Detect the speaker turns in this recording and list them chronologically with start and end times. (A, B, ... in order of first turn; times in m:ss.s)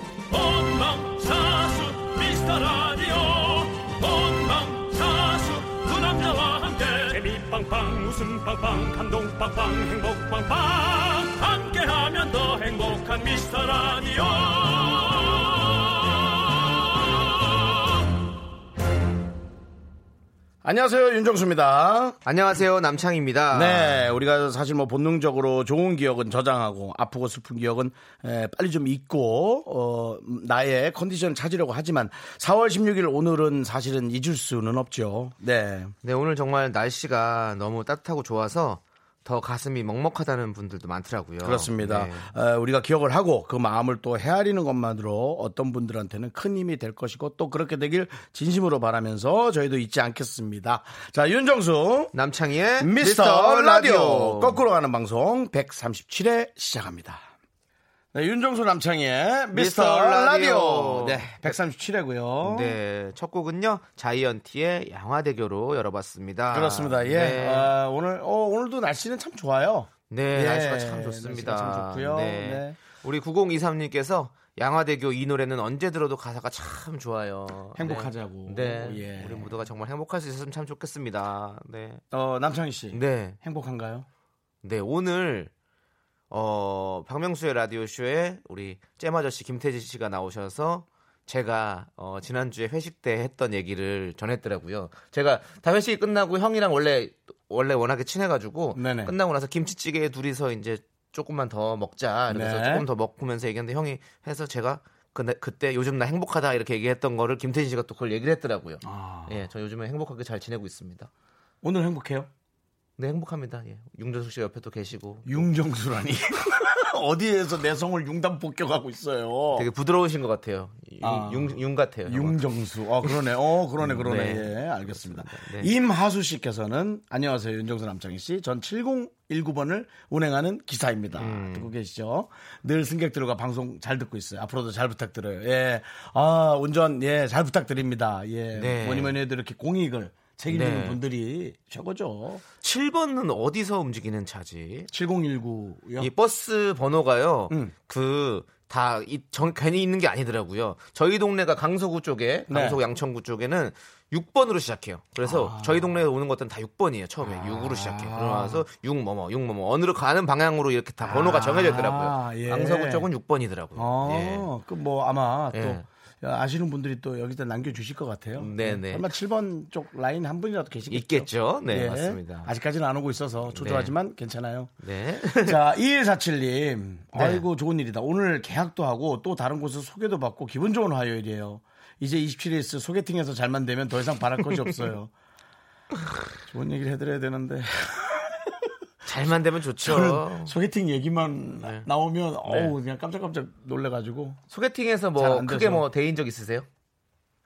0:00.3-0:17.5 A
0:20.6-0:22.2 B
0:22.2-0:24.1 C
0:23.5-0:35.9 B
0:36.0-0:42.3 C
0:41.4-0:52.1 B
0:52.1-0:54.6 C
0:52.8-0:57.3 B
0:58.1-1:02.8 B
0:59.5-1:01.5 C
1:02.4-1:07.7 C
1:06.5-1:12.8 B
1:10.1-1:22.0 C
1:17.7-1:19.5 B
1:22.1-1:24.1 B
1:22.9-1:23.4 C
1:24.6-1:25.5 C
1:26.3-1:51.1 C
1:38.7-1:39.1 B
1:42.3-1:42.9 B
1:48.8-1:49.4 B
1:51.6-1:52.3 B
1:53.0-1:55.4 C
1:55.2-1:59.7 B
1:59.5-2:02.4 C
2:01.0-2:22.4 B
2:03.8-2:05.7 C
2:11.1-2:11.7 C
2:18.5-2:19.2 C
2:20.5-2:21.0 C
2:22.6-2:24.9 C
2:24.9-2:26.1 B
2:26.0-2:44.5 C
2:32.5-2:32.8 B
2:35.2-2:35.9 B
2:37.2-2:38.6 B
2:41.0-2:43.1 B
2:43.7-2:54.7 B
2:45.5-2:45.8 C
2:48.4-2:49.1 C
2:50.9-2:52.5 C
2:53.5-2:53.9 C
2:54.8-2:55.6 C
2:55.4-3:05.1 B
2:57.1-2:57.4 C
3:06.5-3:08.7 B
3:09.0-3:10.5 C
3:09.8-3:14.4 B
3:12.5-3:12.7 C
3:14.5-3:16.7 C
3:15.2-3:15.8 B